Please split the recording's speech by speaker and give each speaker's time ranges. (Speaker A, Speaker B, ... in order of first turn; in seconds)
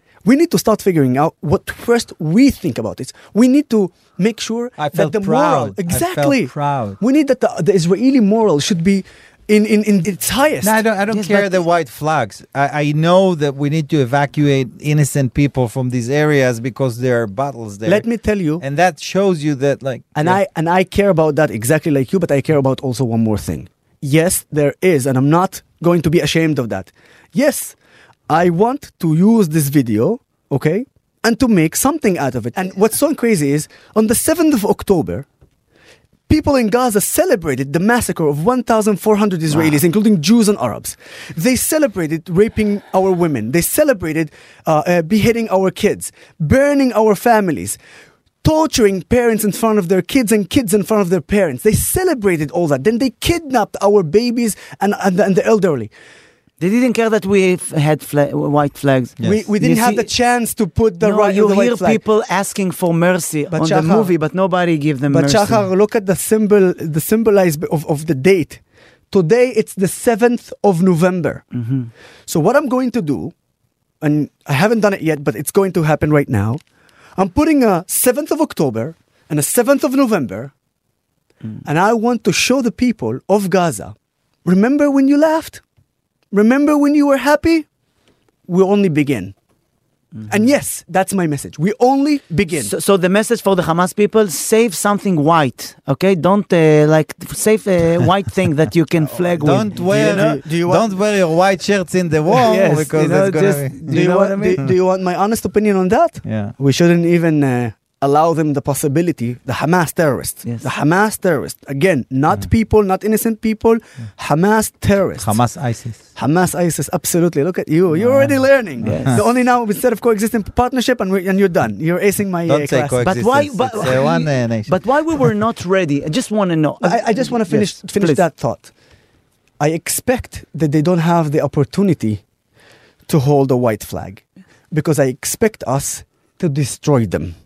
Speaker A: 0.2-10.8, 17.9-18.6, 20.1-27.8, 28.3-35.3, 36.3-47.8, 48.4-55.9, 59.2-62.0, 63.5-64.1, 65.1-71.5, 72.3-73.3, 74.0-76.6, 77.2-80.5, 81.7-83.9, 84.5-85.6, 86.3-87.7, 88.5-89.3, 90.3-92.7, 99.0-100.9, 103.9-115.4, 116.2-123.1, 126.8-128.7, 129.6-132.2, 133.1-137.3
Speaker B: 4.8-7.0, 10.6-18.1, 18.6-20.4, 99.4-104.0, 106.2-106.5, 115.2-116.0, 118.8-119.2, 122.5-124.7
Speaker C: 11.1-11.6, 39.5-39.8, 56.6-60.1, 61.0-65.7, 71.5-71.9, 92.6-100.4, 102.4-104.6, 118.8-119.2, 123.0-128.2